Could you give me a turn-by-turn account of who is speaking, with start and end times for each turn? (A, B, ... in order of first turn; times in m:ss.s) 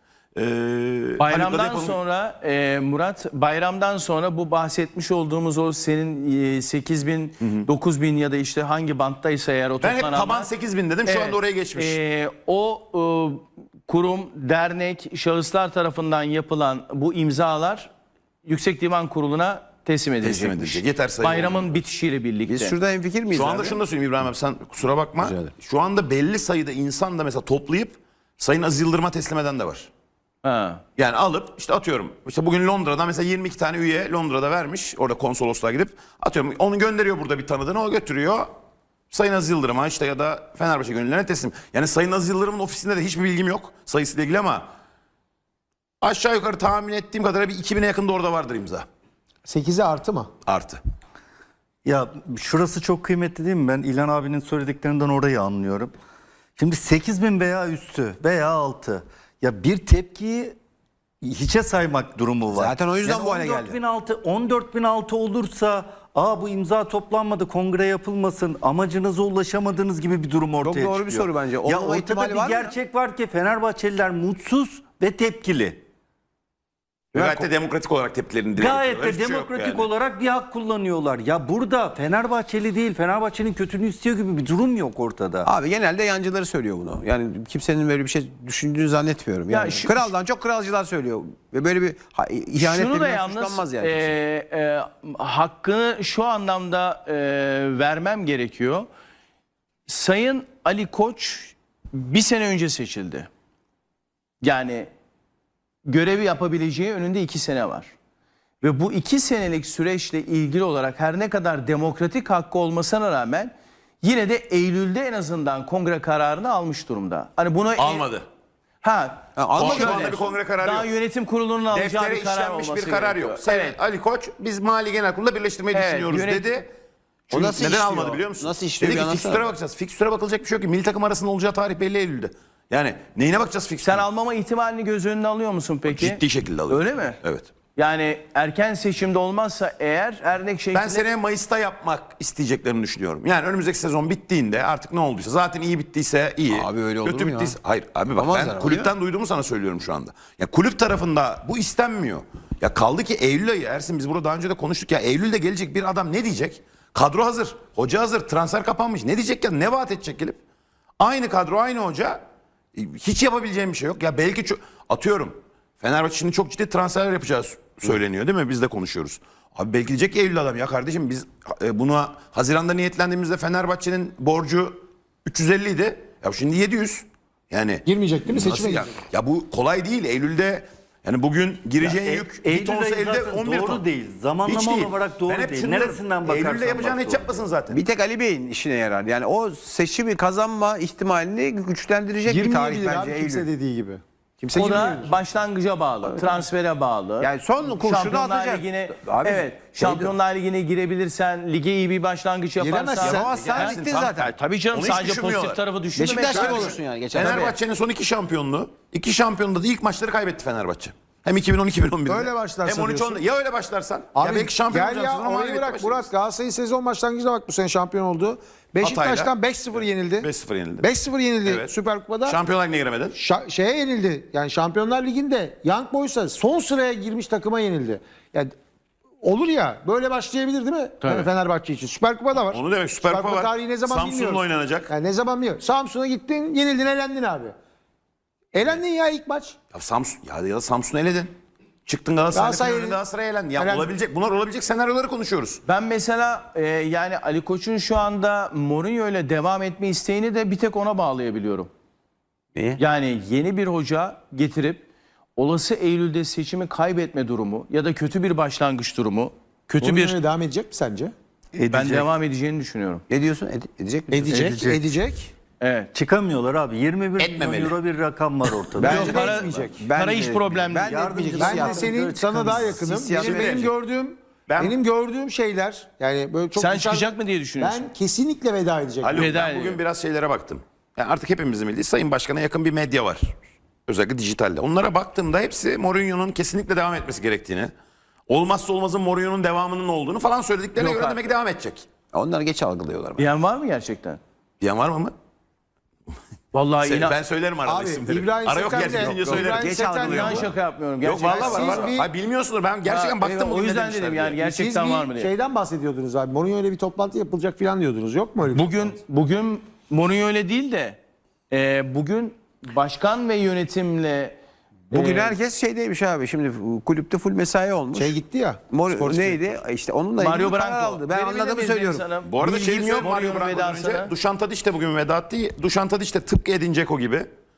0:00.4-0:02.0 A
0:01.2-0:10.5 B
0:07.4-0:07.6 A
0:09.8-0:12.0 A
0:11.0-0:17.9 B
0:18.4-0:22.8 B
0:20.2-0:21.7 A
0:22.4-0:23.8 C
0:23.3-0:29.9 A
0:25.2-0:25.5 C
0:30.4-0:30.8 B
0:31.0-0:38.5 A
0:39.1-0:44.7 A
0:46.0-0:48.8 A
0:49.4-0:50.3 D
0:50.4-0:50.8 A
0:51.8-0:55.9 E
0:56.6-1:00.6 E
1:01.2-1:15.8 E
1:02.5-1:03.8 C
1:10.6-1:12.7 C
1:17.1-1:19.9 A
1:17.1-1:17.5 C
1:18.6-1:25.5 E
1:25.4-1:34.1 C
1:29.5-1:30.1 B
1:32.6-1:38.9 B
1:39.8-1:43.3 B
1:44.4-1:44.9 B
1:45.8-1:47.9 B
1:48.6-1:58.1 B
1:57.8-1:58.2 A
1:58.8-2:03.8 B
1:59.4-2:00.3 C
1:59.5-2:00.9 A
2:01.7-2:06.7 A
2:05.7-2:06.5 B
2:07.3-2:14.0 A
2:07.3-2:09.5 C
2:13.8-2:17.2 B
2:15.9-2:17.5 A
2:17.8-2:21.0 B
2:20.7-2:40.4 A
2:26.5-2:27.5 C
2:28.1-2:28.9 C
2:41.0-2:42.2 A
2:42.7-3:03.8 A
2:57.8-2:58.9 D
3:01.8-3:07.4 E
3:01.9-3:02.2 C
3:04.4-3:07.8 A
3:07.7-3:13.5 C
3:12.2-3:14.0 D
3:14.4-3:15.1 C
3:14.5-3:15.1 D
3:14.5-3:27.5 B
3:16.0-3:16.4 C
3:17.2-3:20.1 C
3:22.6-3:23.5 D
3:23.0-3:24.3 C
3:23.2-3:25.6 A
3:26.0-3:27.6 C
3:26.3-3:36.1 A
3:32.0-3:33.2 D
3:34.1-3:42.4 D
3:38.8-3:40.9 A
3:41.4-3:41.7 A
3:42.2-3:43.2 A
3:43.1-3:48.5 D
3:49.2-3:57.5 D
3:51.0-3:51.3 B
3:52.4-3:54.9 A
3:58.5-3:59.6 D
3:59.7-4:01.3 A
4:01.8-4:05.6 A
4:02.3-4:03.0 D
4:03.6-4:03.9 D
4:05.7-4:11.7 B
4:12.5-4:12.8 C
4:12.8-4:14.8 B
4:15.4-4:20.2 B
4:19.8-4:21.1 D
4:21.6-4:22.0 E
4:21.7-4:23.0 B
4:23.1-4:24.8 C
4:24.1-4:25.3 D
4:25.6-4:25.9 B
4:25.9-4:29.3 E
4:27.2-4:27.8 A
4:28.7-4:33.7 C
4:28.8-4:29.7 D
4:28.8-4:31.1 B
4:30.8-4:32.8 E
4:31.2-4:39.3 D
4:33.1-4:33.7 A
4:34.5-4:34.8 A
4:36.6-4:37.9 B
4:39.0-4:43.3 A
4:39.1-4:39.8 B
4:43.9-4:47.7 A
4:48.3-4:51.9 A
4:50.8-4:51.3 B
4:52.1-4:53.3 C
4:53.2-4:54.2 B
4:54.6-4:55.1 A
4:56.5-4:57.2 B
4:56.8-4:59.8 A
4:57.6-5:00.5 D
4:59.0-5:00.5 C
5:00.0-5:01.9 B
5:01.0-5:04.4 A
5:01.3-5:02.1 D
5:02.8-5:05.3 B
5:04.4-5:09.0 D
5:08.5-5:11.0 B
5:11.5-5:14.4 B
5:14.9-5:15.4 B
5:14.9-5:18.2 C
5:17.9-5:19.3 D
5:18.7-5:23.1 C
5:20.2-5:24.1 B
5:22.2-5:27.3 A